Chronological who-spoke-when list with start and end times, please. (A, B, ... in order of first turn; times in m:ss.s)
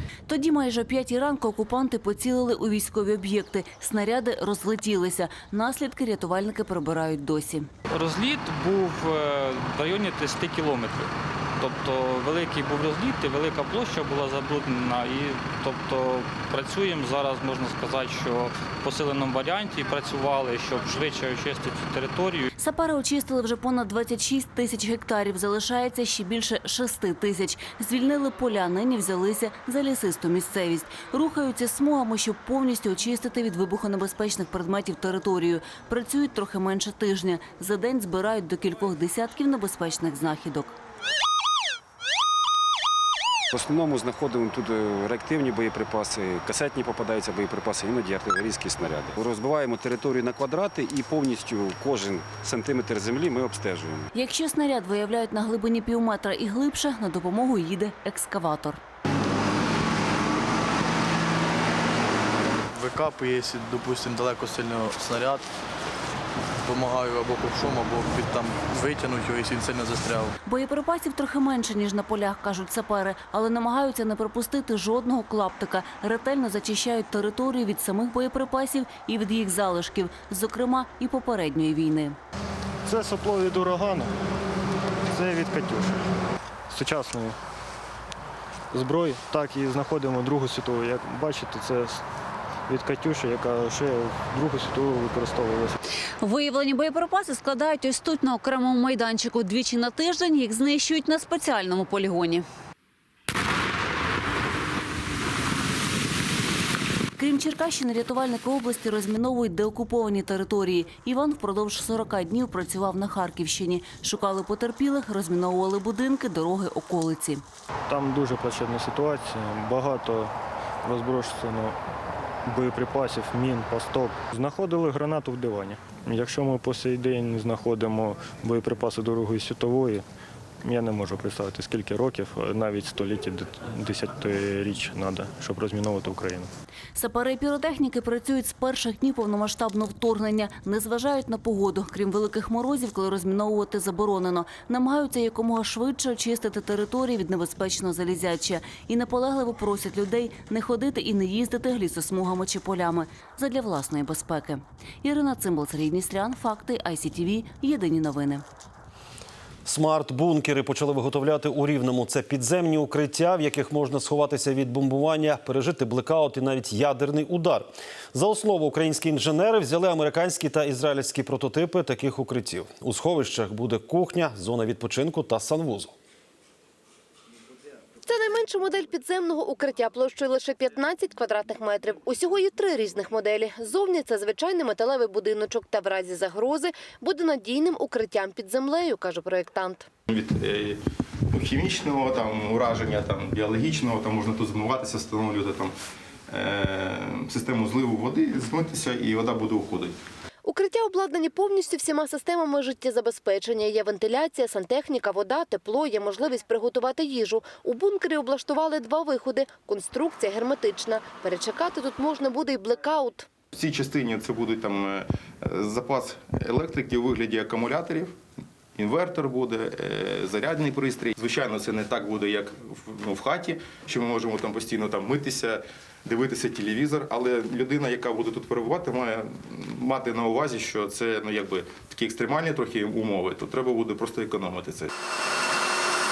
0:00.3-0:07.7 A
0:07.9-0:22.5 B
0:22.6-0:40.8 A
0:43.5-0:54.1 C
0:54.1-0:58.8 A
1:02.8-1:05.5 D
1:06.6-1:10.3 D
1:10.4-1:22.2 A
1:22.9-1:24.1 E
1:25.1-1:26.0 E
1:26.7-1:27.4 E
1:28.7-1:32.0 E
1:32.7-1:35.8 E
1:36.2-1:42.4 F
1:47.2-1:57.4 A
1:57.9-2:00.3 E
2:00.8-2:01.8 E
2:02.5-2:10.0 E
2:10.6-2:16.5 E
2:17.0-2:38.4 A
2:39.6-2:55.9 G
2:58.0-3:09.9 H
3:10.1-3:10.8 I
3:11.3-3:15.7 I
3:16.3-3:20.0 I
3:20.4-3:33.3 H
3:33.5-3:38.2 I
3:38.8-3:54.9 I